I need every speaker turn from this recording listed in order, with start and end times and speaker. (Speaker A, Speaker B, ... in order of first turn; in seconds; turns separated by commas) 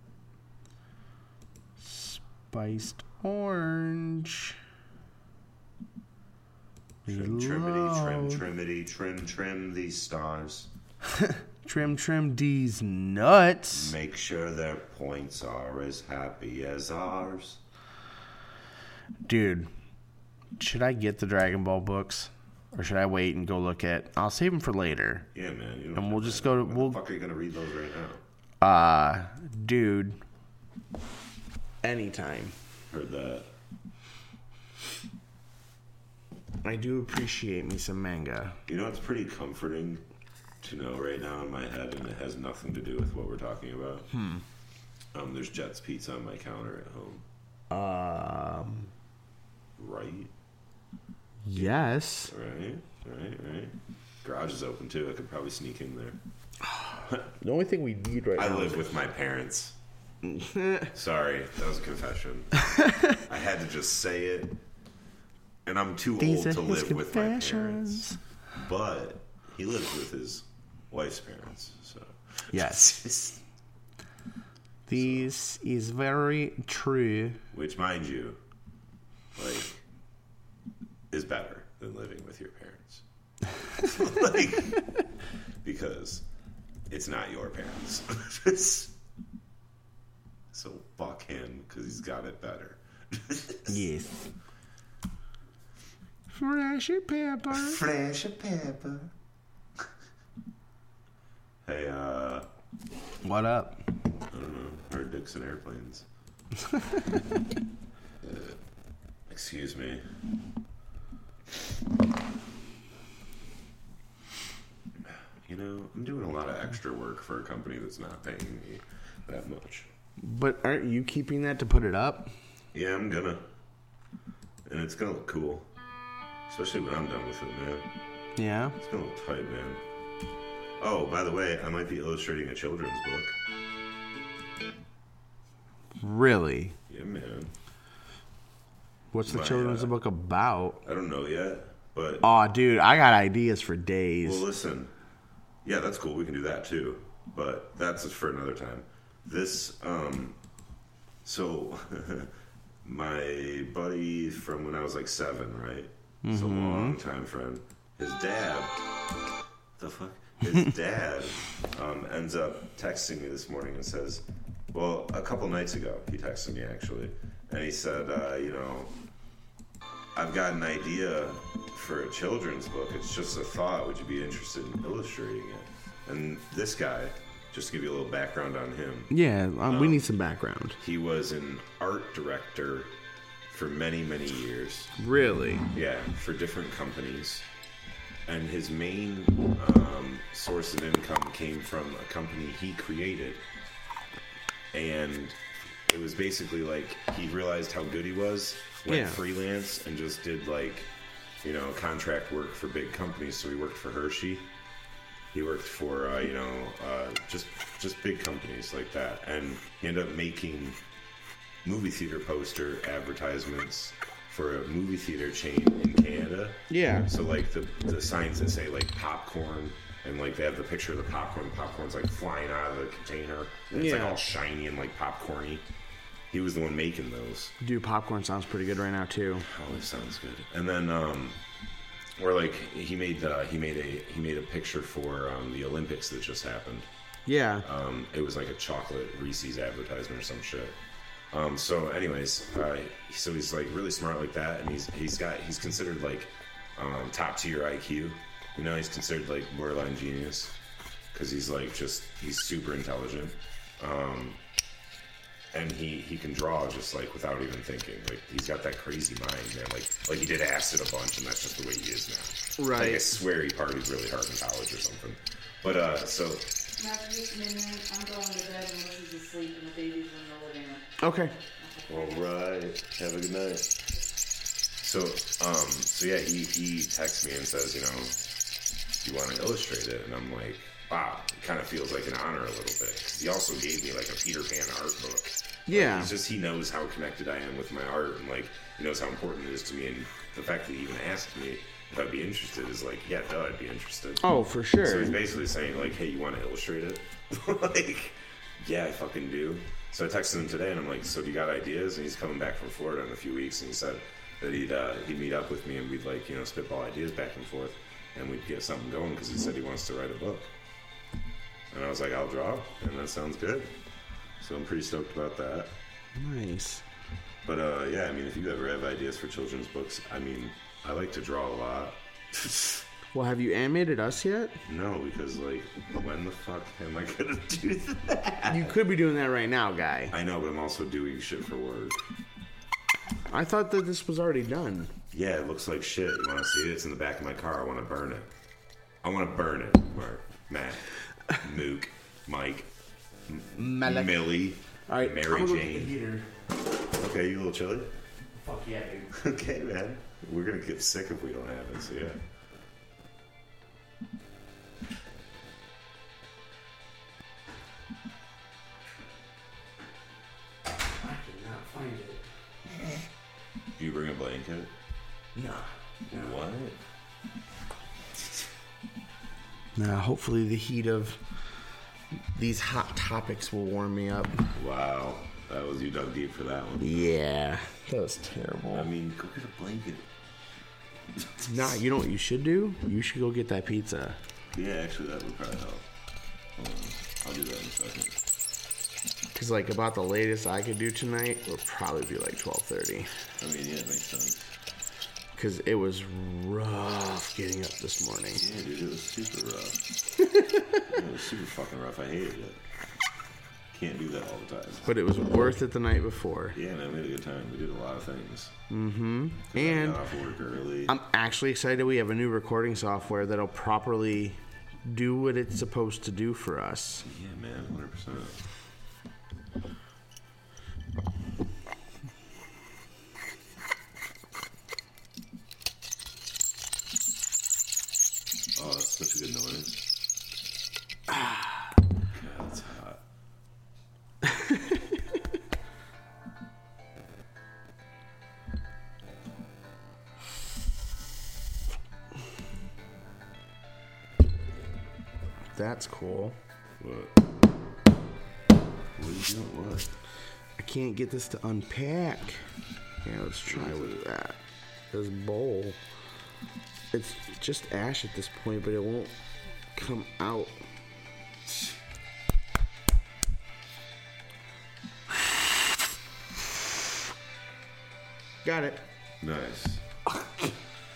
Speaker A: 1.8-4.6, Speaker A: 7.0-8.4, Speaker B: 7.1-10.7, Speaker A: 11.1-13.9, Speaker B: 13.7-17.6, Speaker A: 19.3-19.7, Speaker A: 20.6-25.3, Speaker B: 25.3-28.2, Speaker A: 25.9-27.0, Speaker A: 28.6-30.2, Speaker A: 31.8-32.5, Speaker B: 32.9-33.5, Speaker A: 36.6-38.6, Speaker B: 38.7-40.0, Speaker B: 40.6-44.1, Speaker A: 44.1-44.4, Speaker B: 45.1-47.2, Speaker A: 47.7-48.9, Speaker B: 49.8-50.3, Speaker A: 51.4-52.3, Speaker B: 51.5-56.2, Speaker A: 56.6-58.9, Speaker B: 58.4-59.8, Speaker A: 60.2-60.9, Speaker B: 60.9-62.5, Speaker A: 62.7-63.0, Speaker B: 63.1-64.6, Speaker B: 65.6-73.4, Speaker A: 66.2-68.2, Speaker A: 72.5-73.0, Speaker A: 74.9-77.4, Speaker B: 74.9-75.3, Speaker B: 77.5-78.4, Speaker B: 79.4-79.8, Speaker B: 81.1-83.0, Speaker B: 83.8-84.8, Speaker B: 85.6-86.2, Speaker B: 86.9-88.9, Speaker B: 90.5-93.9, Speaker A: 93.7-94.3, Speaker A: 96.3-97.8, Speaker B: 97.5-99.1, Speaker B: 101.6-102.5, Speaker A: 103.2-103.8, Speaker B: 104.3-106.0, Speaker A: 106.7-107.0, Speaker B: 109.3-110.0, Speaker B: 115.4-119.9, Speaker A: 120.2-122.3, Speaker B: 122.7-123.5, Speaker B: 124.7-125.7, Speaker B: 126.5-127.9, Speaker A: 128.4-128.8, Speaker B: 128.8-129.8, Speaker B: 130.8-133.4, Speaker A: 136.0-136.8, Speaker B: 136.9-137.5, Speaker A: 139.1-140.8, Speaker B: 139.2-139.9, Speaker B: 140.8-142.2, Speaker A: 142.2-144.4, Speaker B: 144.2-144.9, Speaker B: 145.6-150.4, Speaker B: 151.2-152.3, Speaker B: 152.8-158.8, Speaker A: 156.2-157.0, Speaker B: 159.8-168.9, Speaker B: 170.1-179.1, Speaker A: 179.1-180.8, Speaker B: 179.7-180.1, Speaker B: 180.8-182.9, Speaker B: 183.5-184.9, Speaker A: 185.0-185.7, Speaker B: 185.7-187.5, Speaker B: 188.2-193.4, Speaker B: 194.7-200.9, Speaker A: 198.9-199.2, Speaker B: 201.4-204.5, Speaker B: 205.3-210.8, Speaker B: 211.6-225.7, Speaker A: 216.7-217.1, Speaker A: 223.7-224.3, Speaker B: 226.3-227.5, Speaker A: 227.6-229.4, Speaker B: 229.4-231.4, Speaker B: 232.2-236.9, Speaker A: 237.2-237.7, Speaker B: 237.6-240.8, Speaker B: 241.3-250.6, Speaker B: 251.1-254.4, Speaker B: 255.5-266.5, Speaker A: 262.6-263.2, Speaker C: 266.8-272.3, Speaker A: 271.0-271.3, Speaker B: 271.9-273.7, Speaker B: 274.8-278.2, Speaker B: 279.0-294.3, Speaker A: 285.7-286.1, Speaker A: 294.2-295.2, Speaker B: 294.8-310.5, Speaker B: 311.7-313.7, Speaker B: 314.4-315.8, Speaker A: 316.1-316.8, Speaker B: 317.4-322.8, Speaker A: 323.1-324.6, Speaker B: 324.6-328.8, Speaker A: 328.5-330.1, Speaker B: 330.1-332.0, Speaker A: 333.3-334.9, Speaker B: 335.1-338.3, Speaker B: 339.0-342.7, Speaker B: 343.3-346.0, Speaker A: 343.6-344.3, Speaker A: 344.9-346.2, Speaker B: 346.9-347.9, Speaker A: 348.4-349.1, Speaker B: 349.1-352.2, Speaker A: 360.9-362.2, Speaker B: 363.8-364.7, Speaker A: 365.3-366.3, Speaker B: 366.1-366.8, Speaker A: 369.7-371.2, Speaker A: 372.3-374.4, Speaker B: 374.5-377.0, Speaker A: 376.8-378.9, Speaker B: 378.7-380.1, Speaker B: 381.1-381.6, Speaker A: 381.4-384.2, Speaker B: 384.5-385.9, Speaker B: 386.6-388.2, Speaker A: 389.3-393.1, Speaker B: 393.4-394.4, Speaker A: 395.3-398.4, Speaker B: 398.3-399.9, Speaker A: 400.2-400.9, Speaker B: 400.9-402.6, Speaker B: 403.7-405.0, Speaker A: 404.8-406.6, Speaker B: 406.5-408.5, Speaker A: 408.7-410.0, Speaker B: 409.5-410.9, Speaker A: 410.9-417.1, Speaker B: 417.0-418.4, Speaker B: 428.5-429.8, Speaker B: 432.1-433.0, Speaker A: 434.3-434.7, Speaker A: 445.6-446.4, Speaker B: 446.8-447.1, Speaker B: 448.9-449.9, Speaker A: 450.6-452.4, Speaker A: 453.0-454.4, Speaker B: 453.4-454.0, Speaker A: 454.9-455.8, Speaker A: 456.9-459.1, Speaker A: 459.7-460.6, Speaker A: 468.4-468.9, Speaker B: 469.2-469.8, Speaker A: 470.1-470.5